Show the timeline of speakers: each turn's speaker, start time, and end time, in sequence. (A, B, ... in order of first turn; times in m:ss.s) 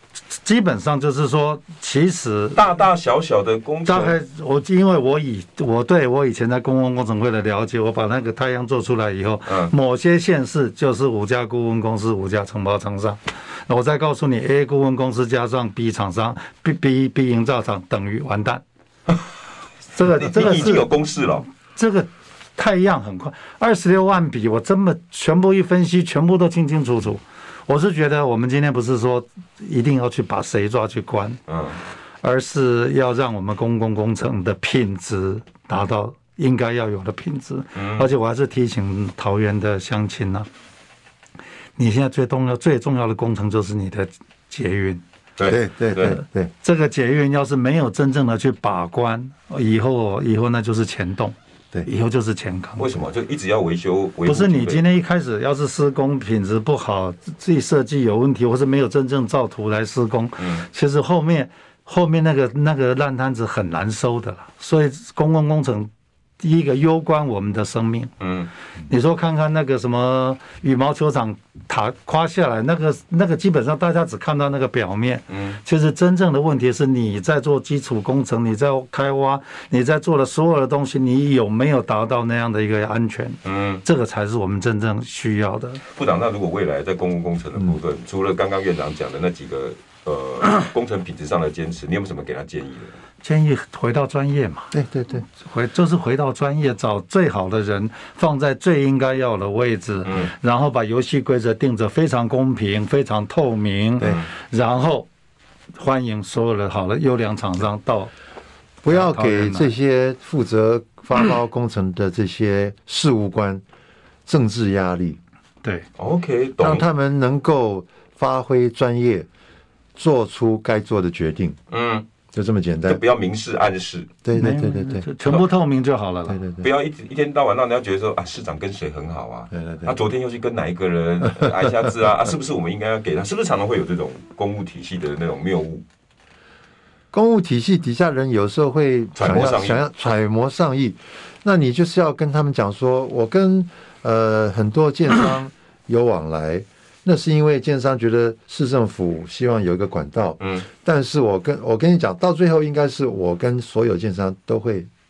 0:00.4-0:02.6 A
0:02.6-0:04.2 B
0:03.9-0:18.6 A
0:09.5-0:09.7 B
0:19.9-0:20.9 A
0:20.2-0:21.5 B
0:21.7-0:31.4 A
0:31.5-0:31.8 B
0:32.2-0:40.5 A
0:37.8-0:38.1 B
0:41.8-0:45.0 A
0:45.4-0:46.2 B
0:45.5-0:46.5 C
0:46.1-0:51.4 A
0:51.9-0:53.0 A
0:52.8-0:54.8 B
0:54.3-1:08.1 A
1:00.4-1:00.7 B
1:08.2-1:08.5 B
1:08.9-1:25.8 A
1:15.3-1:15.6 B
1:23.4-1:23.8 B
1:25.9-1:32.9 B
1:33.2-1:34.8 A
1:34.7-1:35.2 C
1:35.3-1:45.1 A
1:44.0-1:44.3 B
1:45.8-1:48.1 A
1:48.8-1:53.6 C
1:48.9-1:49.7 A
1:54.3-1:55.2 C
1:56.0-1:56.8 B
1:56.6-1:59.3 C
2:00.0-2:01.6 C
2:01.7-2:02.1 B
2:02.3-2:03.0 C
2:02.9-2:04.2 B
2:04.2-2:05.1 C
2:04.3-2:06.4 A
2:06.3-2:06.7 C
2:06.6-2:15.8 B
2:09.5-2:10.0 C
2:17.1-2:34.9 C
2:19.2-2:19.8 B
2:30.4-2:30.7 B